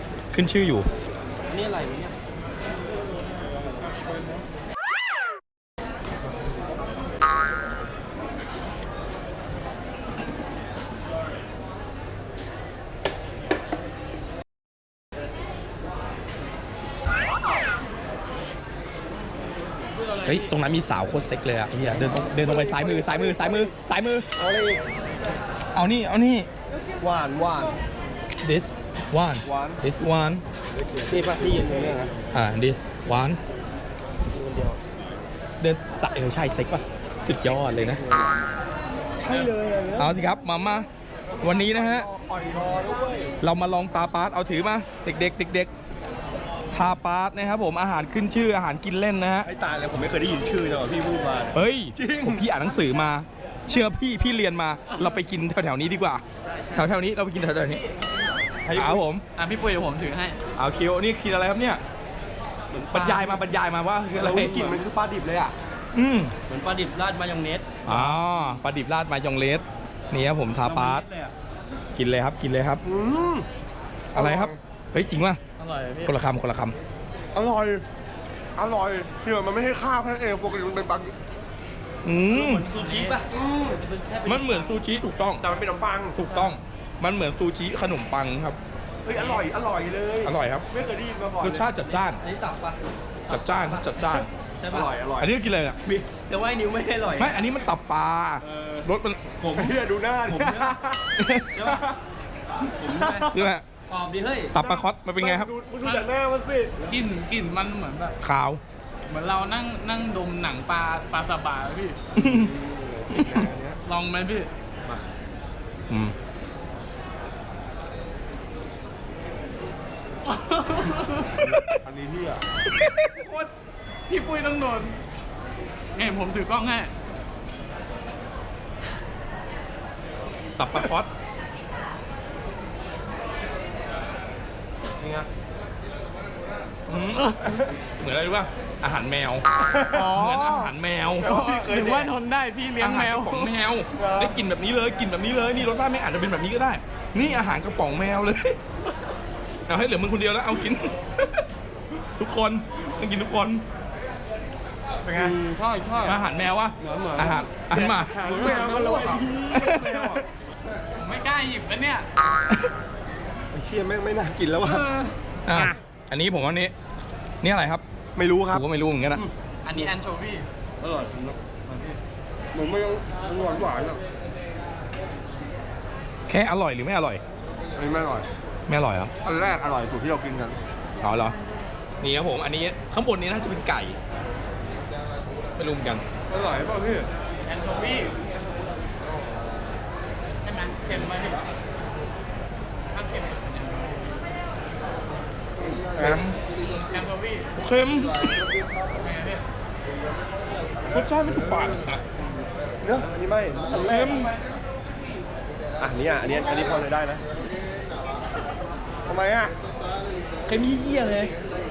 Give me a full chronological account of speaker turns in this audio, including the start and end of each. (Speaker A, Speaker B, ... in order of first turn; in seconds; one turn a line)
Speaker A: 0.3-0.9
Speaker B: 1.5-2.1
Speaker A: 20.2-24.2
Speaker C: 24.4-24.8
Speaker A: 25.7-26.5
Speaker C: 27.0-27.7
Speaker A: 28.4-30.4
Speaker C: 29.4-29.8
Speaker B: 31.1-32.1
Speaker A: 32.3-33.4
Speaker B: 34.3-34.8
Speaker A: 35.6-38.0
Speaker C: 39.2-40.1
Speaker A: 39.3-40.9
Speaker A: 41.4-42.0
Speaker C: 41.4-43.3
Speaker A: 43.4-45.7
Speaker A: 46.7-49.5
Speaker C: 49.4-52.5
Speaker A: 51.5-56.2
Speaker B: 56.5-56.9
Speaker A: 56.7-57.9
Speaker C: 58.6-59.0
Speaker A: 58.7-59.2
Speaker D: 59.4-60.4
Speaker A: 60.5-61.8
Speaker B: 62.7-63.5
Speaker A: 62.9-64.6
Speaker C: 64.1-65.5
Speaker B: 64.4-64.8
Speaker A: 65.9-66.3
Speaker B: 66.5-67.9
Speaker A: 67.8-71.0
Speaker B: 70.6-71.3
Speaker A: 71.9-72.8
Speaker C: 72.8-73.5
Speaker A: 74.1-75.4
Speaker C: 74.1-74.5
Speaker D: 75.6-76.1
Speaker A: 76.0-76.8
Speaker C: 77.3-77.8
Speaker C: 78.5-81.1
Speaker A: 82.0-82.7
Speaker B: 82.3-84.8
Speaker D: 82.8-83.2
Speaker C: 83.3-83.8
Speaker A: 84.2-85.4
Speaker C: 85.4-86.2
Speaker A: 86.1-88.6
Speaker C: 89.0-91.7
Speaker A: 90.2-90.7
Speaker A: 91.4-92.2
Speaker B: 92.1-92.8
Speaker A: 93.3-94.3
Speaker B: 93.3-95.0
Speaker C: 94.7-95.3
Speaker A: 95.2-95.8
Speaker B: 95.8-97.5
Speaker A: 97.2-99.7
Speaker B: 98.4-98.8
Speaker C: 99.4-101.0
Speaker B: 100.3-100.8
Speaker A: 101.2-101.9
Speaker B: 101.5-101.8
Speaker B: 102.8-103.3
Speaker C: 102.8-103.5
Speaker A: 103.2-103.7
Speaker B: 103.9-104.5
Speaker A: 104.5-105.5
Speaker C: 104.5-106.9
Speaker D: 105.8-106.1
Speaker D: 106.8-108.2
Speaker A: 108.2-108.6
Speaker D: 109.1-112.0
Speaker A: 112.2-112.5
Speaker C: 112.2-113.8
Speaker A: 113.1-113.4
Speaker D: 113.8-114.5
Speaker A: 115.9-116.1
Speaker D: 120.3-121.4
Speaker C: 121.3-122.4
Speaker A: 121.5-121.8
Speaker D: 123.0-123.5
Speaker D: 124.1-125.0
Speaker D: 125.9-126.9
Speaker A: 130.6-131.1
Speaker B: 135.0-135.2
Speaker A: 136.9-139.4
Speaker C: 139.7-140.0
Speaker D: 139.9-143.5
Speaker A: 140.1-141.3
Speaker C: 141.2-142.1
Speaker A: 142.8-148.6
Speaker C: 143.9-144.4
Speaker A: 149.7-151.4
Speaker A: 152.2-153.6
Speaker C: 155.0-155.4
Speaker B: 155.1-156.2
Speaker A: 156.0-158.3
Speaker B: 156.8-157.4
Speaker C: 157.7-160.2
Speaker B: 158.2-158.9
Speaker D: 158.8-159.2
Speaker A: 159.5-160.2
Speaker D: 160.9-162.1
Speaker C: 163.5-165.8
Speaker A: 165.4-166.7
Speaker A: 167.4-167.8
Speaker C: 168.1-169.3
Speaker A: 168.5-169.2
Speaker D: 169.6-170.5
Speaker B: 170.8-172.0
Speaker B: 172.5-174.0
Speaker C: 172.7-173.0
Speaker A: 176.3-177.2
Speaker C: 177.8-178.3
Speaker A: 178.7-179.1
Speaker C: 179.2-180.6
Speaker A: 181.0-181.4
Speaker A: 182.0-184.0
Speaker A: 185.6-186.0
Speaker C: 186.3-187.0
Speaker D: 187.4-188.2
Speaker D: 190.4-191.4
Speaker D: 192.9-194.2
Speaker C: 195.8-196.2
Speaker A: 196.0-196.4
Speaker D: 196.6-197.5
Speaker A: 197.5-198.3
Speaker D: 198.9-199.4
Speaker A: 200.9-202.0
Speaker C: 202.8-204.2
Speaker A: 203.7-204.3
Speaker C: 205.8-207.2
Speaker C: 209.1-209.5
Speaker A: 210.4-211.3